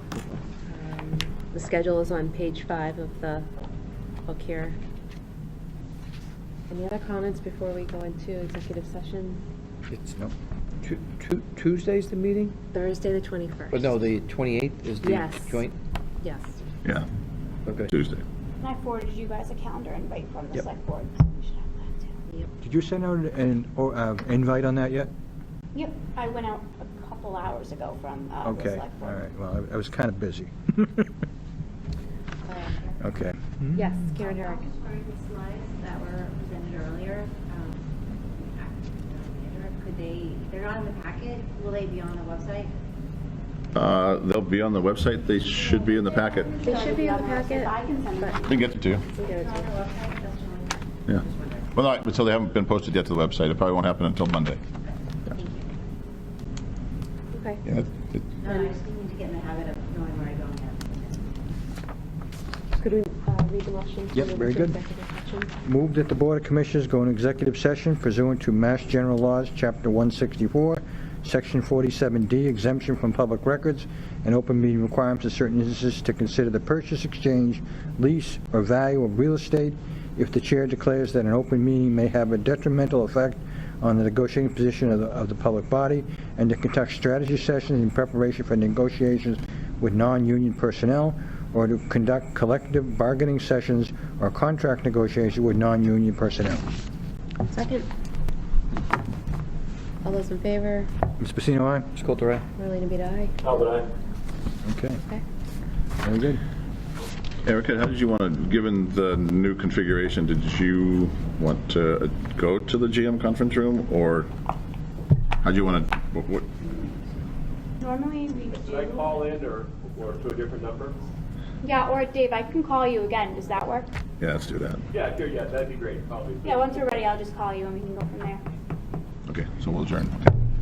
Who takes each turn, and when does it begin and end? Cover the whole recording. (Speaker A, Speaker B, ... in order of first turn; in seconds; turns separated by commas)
Speaker A: 0.7-3.5, Speaker A: 4.3-4.8, Speaker A: 6.7-9.4, Speaker B: 10.8-12.6, Speaker A: 12.7-14.0, Speaker B: 13.7-15.8, Speaker A: 15.0-15.6, Speaker A: 16.2-16.6, Speaker B: 17.7-17.9, Speaker C: 17.9-18.2, Speaker D: 18.6-22.2, Speaker E: 22.6-25.1, Speaker D: 25.8-29.1, Speaker E: 28.4-31.1, Speaker F: 32.5-32.9, Speaker E: 33.0-33.6, Speaker A: 33.8-34.6, Speaker F: 34.2-42.7, Speaker C: 43.7-46.6, Speaker D: 46.6-48.6, Speaker A: 46.6-48.4, Speaker C: 48.4-49.0, Speaker A: 49.1-49.7, Speaker F: 49.1-51.7, Speaker C: 51.1-54.6, Speaker F: 55.2-55.8, Speaker A: 57.3-57.6, Speaker C: 57.7-58.2, Speaker F: 58.4-61.3, Speaker A: 62.8-65.5, Speaker E: 64.1-64.8, Speaker E: 65.6-96.7, Speaker A: 97.5-97.9, Speaker A: 100.0-100.9, Speaker E: 101.2-101.9, Speaker B: 102.0-102.5, Speaker A: 102.6-103.3, Speaker G: 103.5-103.8, Speaker E: 104.7-105.0, Speaker E: 106.0-106.4, Speaker C: 107.4-114.3, Speaker C: 115.4-116.8, Speaker D: 117.8-119.3, Speaker G: 118.5-121.1, Speaker D: 121.6-123.9, Speaker C: 124.2-124.8, Speaker G: 124.9-127.1, Speaker D: 126.4-128.4, Speaker C: 129.3-130.3